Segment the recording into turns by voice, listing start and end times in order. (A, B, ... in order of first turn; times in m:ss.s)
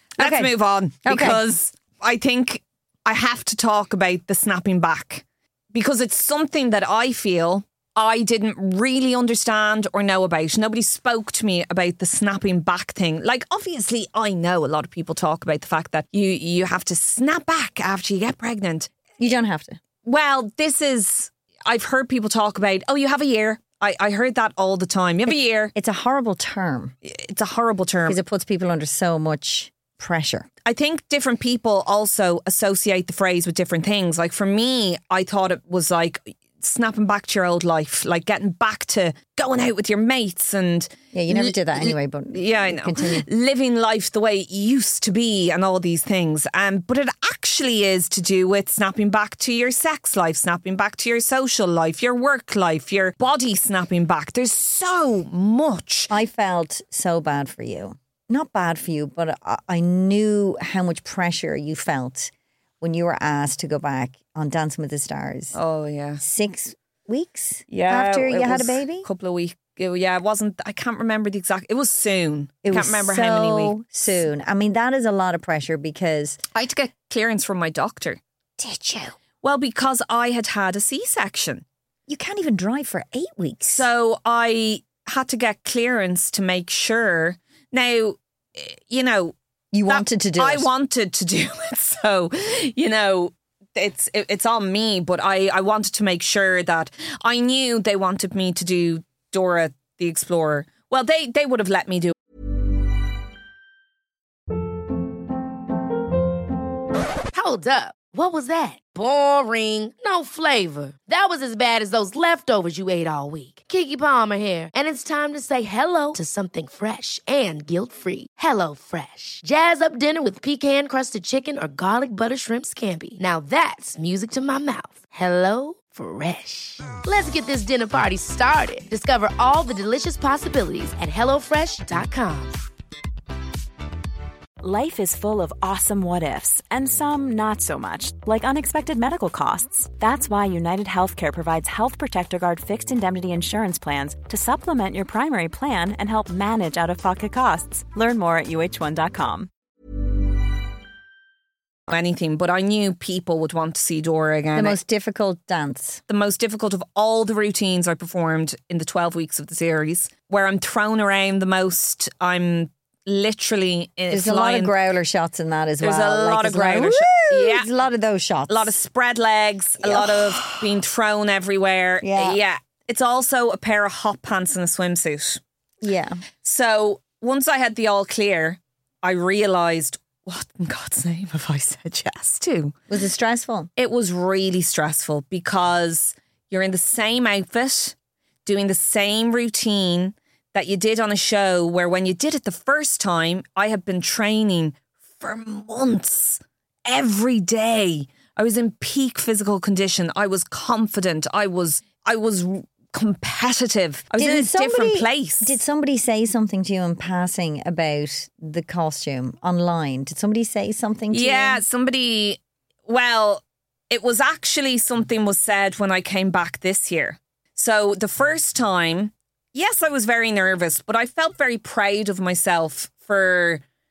0:00.2-0:00.5 A
0:00.2-0:18.9 B
0:01.0-0:01.4 A
0:19.2-0:19.8 A
0:20.0-0:25.7 B
0:25.3-0:26.9 A
0:27.0-0:28.2 B
0:28.0-0:30.5 A
0:30.6-0:56.1 B
0:41.1-0:43.2 A
0:56.1-1:05.6 A
1:05.5-1:06.2 B
1:06.2-1:09.0 A
1:07.7-1:14.2 B
1:12.6-1:16.4 A
1:16.5-1:18.2 B
1:18.6-1:19.2 A
1:19.4-1:21.6 B
1:22.1-1:23.9 A
1:23.6-1:29.4 B
1:29.7-1:30.7 A
1:29.9-1:42.1 B
1:47.3-2:12.6 C
2:14.6-2:29.5 D
2:31.9-2:34.8 B
2:34.5-2:36.0 A
2:36.1-2:44.7 B
2:44.1-2:48.7 A
2:45.8-2:47.7 B
2:48.5-2:55.4 B
2:49.8-2:50.7 A
2:52.0-2:52.4 A
2:55.8-2:56.2 A
2:56.4-3:02.8 B
3:02.9-3:03.7 A
3:03.8-3:25.6 B
3:24.2-3:31.6 A
3:31.1-3:43.6 B